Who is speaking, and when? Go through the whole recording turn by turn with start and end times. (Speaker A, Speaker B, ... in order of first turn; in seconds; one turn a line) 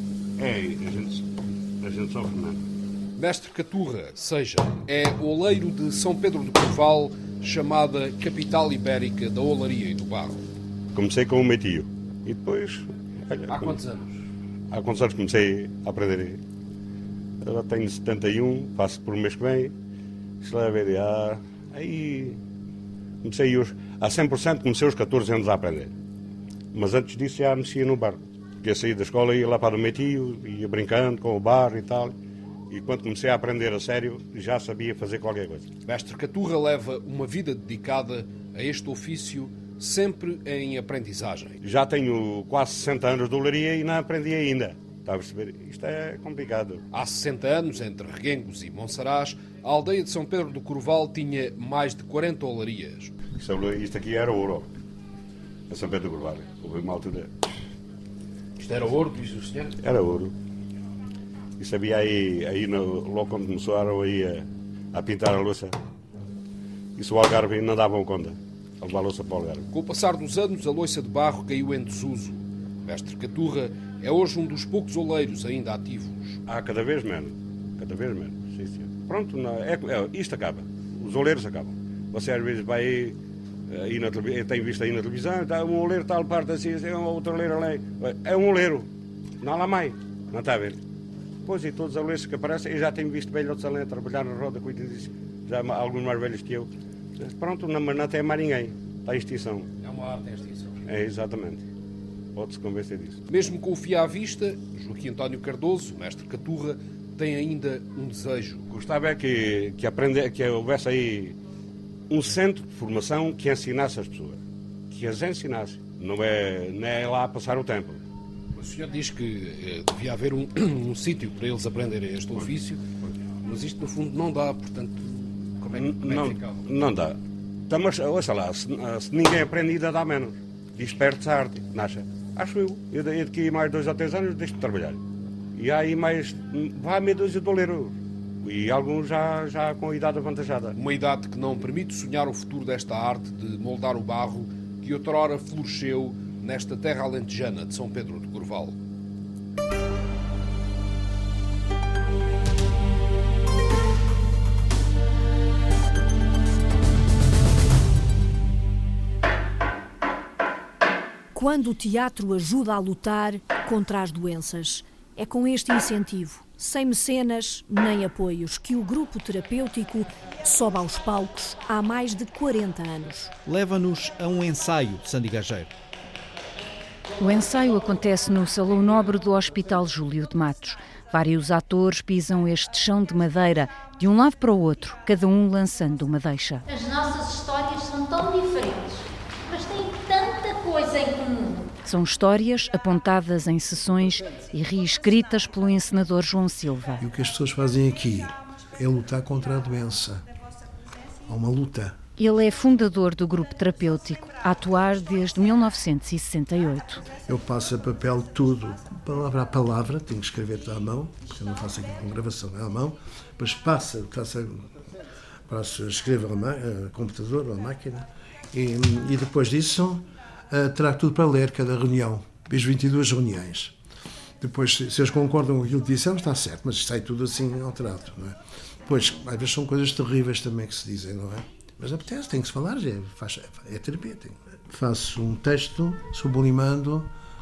Speaker A: 0.4-1.2
Speaker A: 1.8-2.6
Speaker B: 3.2-10.4
Speaker A: 10.9-13.8
Speaker B: 13.4-14.2
Speaker A: 14.7-16.4
Speaker A: 17.4-19.7
Speaker A: 20.4-22.4
Speaker A: 23.2-25.9
Speaker A: 26.7-32.1
Speaker A: 32.7-35.7
Speaker B: 35.9-41.6
Speaker A: 41.6-46.8
Speaker B: 46.9-53.1
Speaker A: 53.3-54.7
Speaker A: 55.7-57.3
Speaker B: 58.6-59.7
Speaker A: 59.8-60.3
Speaker A: 61.6-65.7
Speaker A: 67.0-69.7
Speaker B: 69.7-76.4
Speaker A: 76.5-83.2
Speaker A: 83.7-88.9
Speaker A: 89.4-90.8
Speaker A: 91.4-99.7
Speaker B: 99.8-100.8
Speaker A: 100.8-101.6
Speaker A: 102.3-103.2
Speaker B: 103.3-108.6
Speaker A: 108.7-111.4
Speaker A: 112.1-118.0
Speaker B: 118.5-122.8
Speaker B: 123.4-126.6
Speaker A: 125.7-127.2
Speaker A: 127.7-135.0
Speaker A: 135.5-140.8
Speaker B: 140.7-148.8
Speaker C: 161.3-173.3
Speaker D: 173.4-175.7
Speaker E: 177.2-186.6
Speaker F: 186.7-191.6
Speaker E: 191.8-197.0
Speaker G: 197.0-200.2
Speaker G: 201.3-202.0
Speaker E: 202.2-207.0
Speaker G: 207.2-214.7
Speaker G: 215.5-223.7
Speaker G: 224.4-237.1